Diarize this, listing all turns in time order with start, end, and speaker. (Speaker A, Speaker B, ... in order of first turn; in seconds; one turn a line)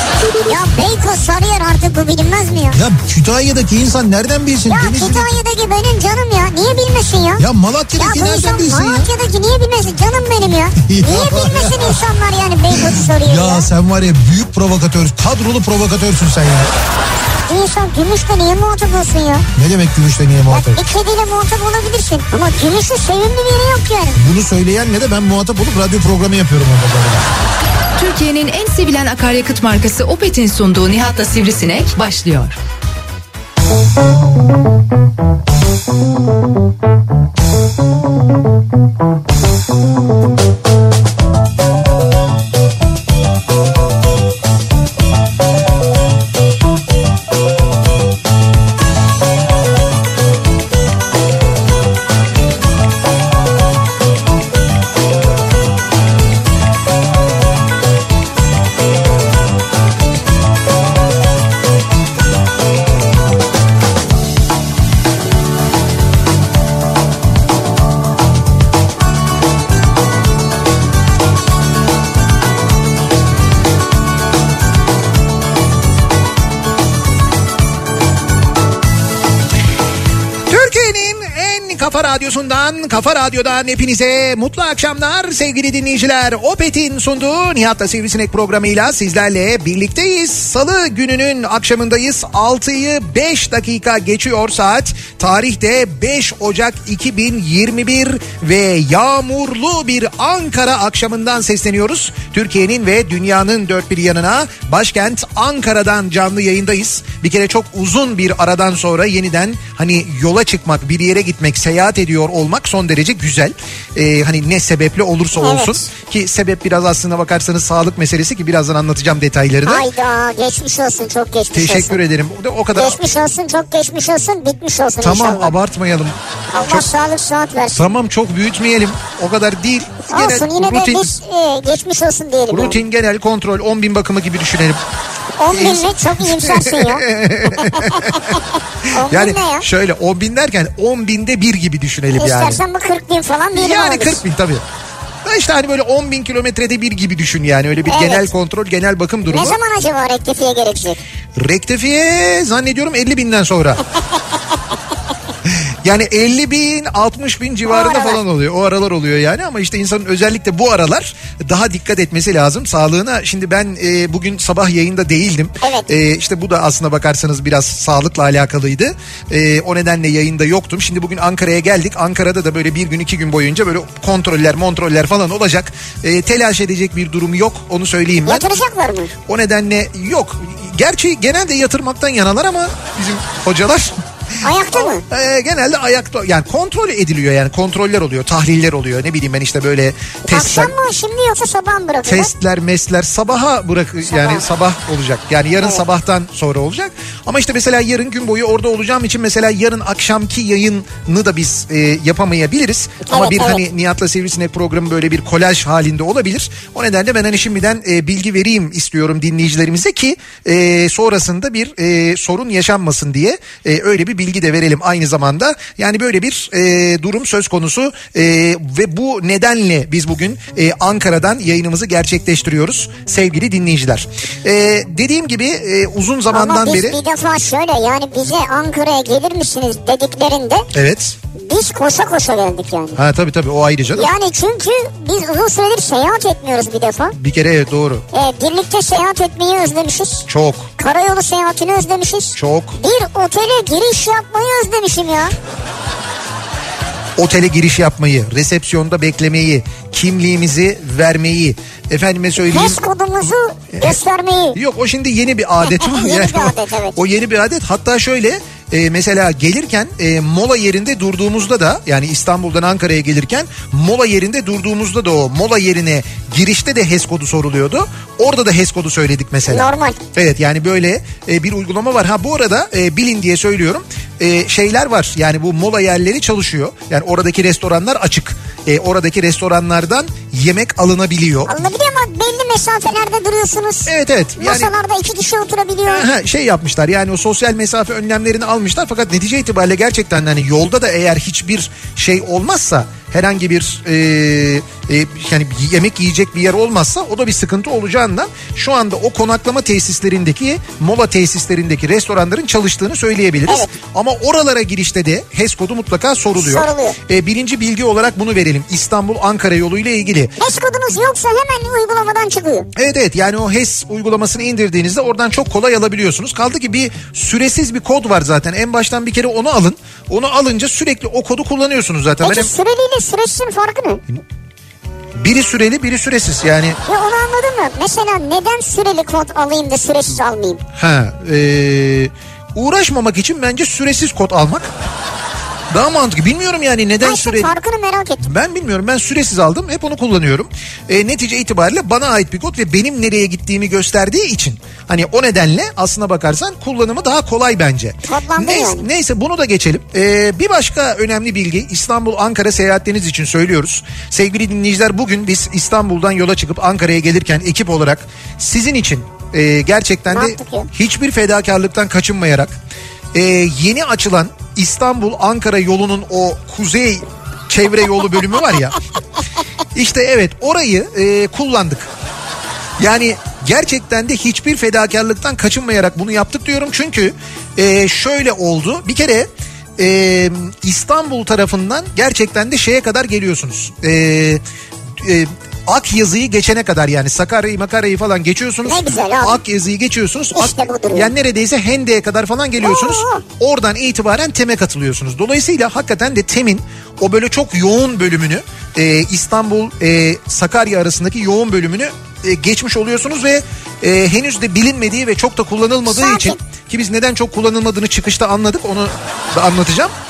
Speaker A: 0.4-2.8
Speaker B: 2.7-5.3
Speaker A: 4.7-7.4
Speaker B: 7.4-9.1
Speaker A: 8.0-13.7
Speaker B: 10.8-12.0
Speaker B: 12.7-16.7
Speaker A: 17.4-19.4
Speaker B: 19.5-20.8
Speaker A: 20.5-24.2
Speaker B: 24.2-27.2
Speaker C: 28.0-32.6
Speaker B: 80.5-119.8
Speaker A: 115.4-115.9
Speaker A: 119.7-122.0
Speaker B: 121.5-123.0
Speaker A: 122.7-125.5
Speaker B: 125.0-126.9
Speaker A: 126.5-127.9
Speaker B: 127.8-131.1
Speaker A: 130.1-132.8
Speaker B: 132.5-134.8
Speaker A: 135.4-139.7
Speaker B: 135.5-142.6
Speaker A: 142.1-144.2
Speaker B: 143.5-144.6
Speaker B: 145.2-149.6
Speaker A: 147.8-148.3
Speaker A: 149.3-151.0
Speaker B: 151.4-153.8
Speaker B: 155.4-178.5
Speaker A: 157.7-158.2
Speaker A: 165.6-165.9
Speaker A: 178.2-179.1
Speaker B: 179.3-183.9
Speaker A: 184.4-185.0
Speaker B: 184.7-190.7
Speaker A: 190.3-192.3
Speaker B: 192.0-227.0
Speaker A: 194.1-194.4
Speaker A: 203.0-203.6
Speaker A: 226.3-230.7
Speaker B: 230.7-231.2
Speaker A: 231.3-233.0
Speaker B: 232.9-234.1
Speaker A: 233.9-237.2
Speaker B: 237.1-238.0
Speaker A: 238.1-240.2
Speaker B: 240.3-240.7
Speaker A: 240.8-245.3
Speaker B: 242.3-242.8
Speaker B: 247.2-252.8
Speaker A: 252.4-254.6
Speaker B: 253.7-254.0
Speaker B: 254.5-281.5
Speaker A: 255.6-257.0
Speaker A: 269.5-270.0
Speaker A: 281.4-286.1
Speaker B: 283.9-284.7
Speaker B: 285.9-310.3
Speaker A: 303.5-303.7
Speaker A: 306.4-307.0
Speaker A: 310.4-312.7
Speaker B: 312.8-322.5
Speaker A: 322.2-324.0
Speaker B: 325.2-326.8
Speaker A: 326.9-330.6
Speaker B: 330.8-334.7
Speaker B: 335.7-337.5
Speaker A: 337.0-338.2
Speaker B: 338.2-362.5
Speaker A: 348.0-348.9
Speaker A: 360.1-360.7
Speaker B: 363.1-368.8
Speaker B: 369.7-371.9
Speaker B: 372.8-384.4
Speaker B: 385.0-409.9
Speaker A: 388.6-389.4
Speaker A: 390.3-391.1
Speaker A: 392.6-393.2
Speaker A: 405.9-406.4